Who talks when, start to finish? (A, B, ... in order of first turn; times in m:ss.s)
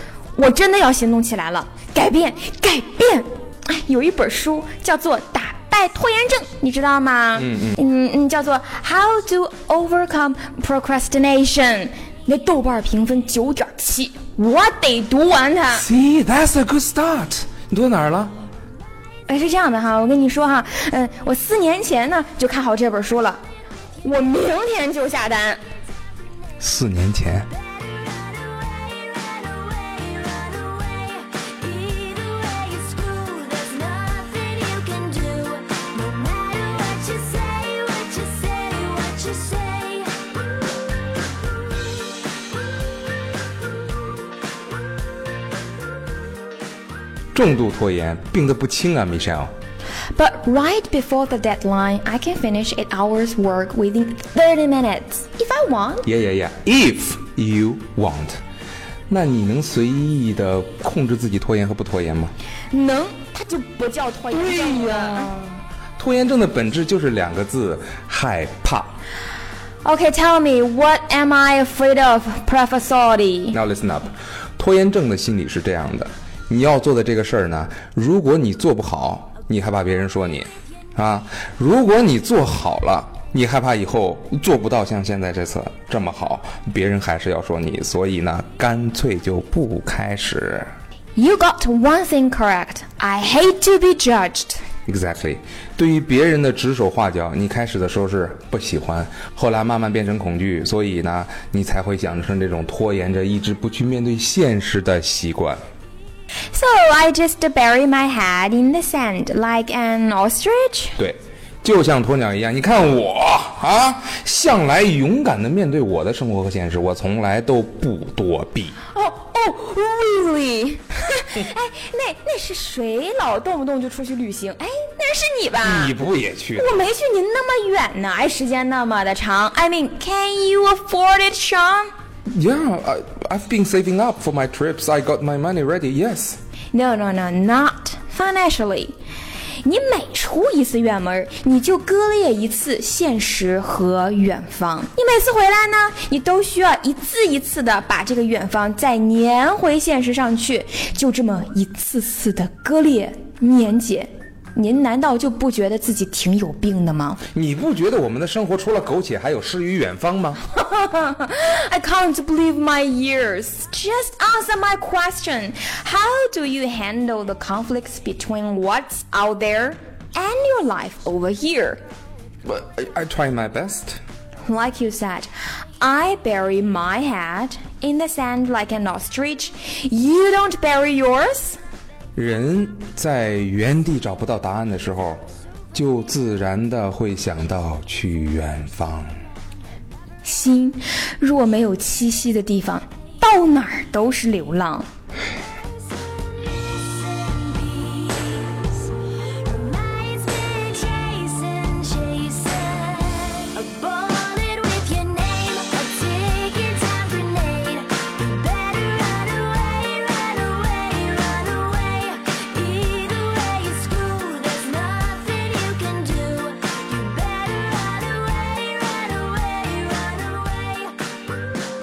0:00.4-0:15.8 A
0:07.4-0:07.8 B
0:15.7-0:18.3 B
0:19.3-0:23.4 A
0:24.0-0:25.6 A
0:26.6-0:27.5 B
0:27.6-0:40.3 C
0:47.3-0:49.5 B
0:50.2-0:56.1 A
0:56.0-0:58.4 B
0:59.1-1:02.3 B
1:02.7-1:05.5 A
1:04.3-1:05.4 B
1:06.0-1:09.0 B
1:09.8-1:13.6 A
1:13.5-1:30.7 B
1:31.2-1:34.6 A
1:34.9-1:45.6 B
1:46.5-1:51.0 A
1:51.0-1:58.8 B
1:58.9-2:06.0 A
2:05.6-2:06.7 B
2:06.6-2:11.9 A
2:12.3-2:16.4 B
2:16.7-2:19.0 A
2:19.6-2:37.2 A
2:37.3-2:40.4 B
2:40.4-2:51.8 A
2:52.4-2:54.0 B
2:54.5-3:01.6 A
3:02.2-3:05.2 B
3:05.7-3:09.1 B
3:10.2-3:14.9 A
3:16.0-3:41.1 C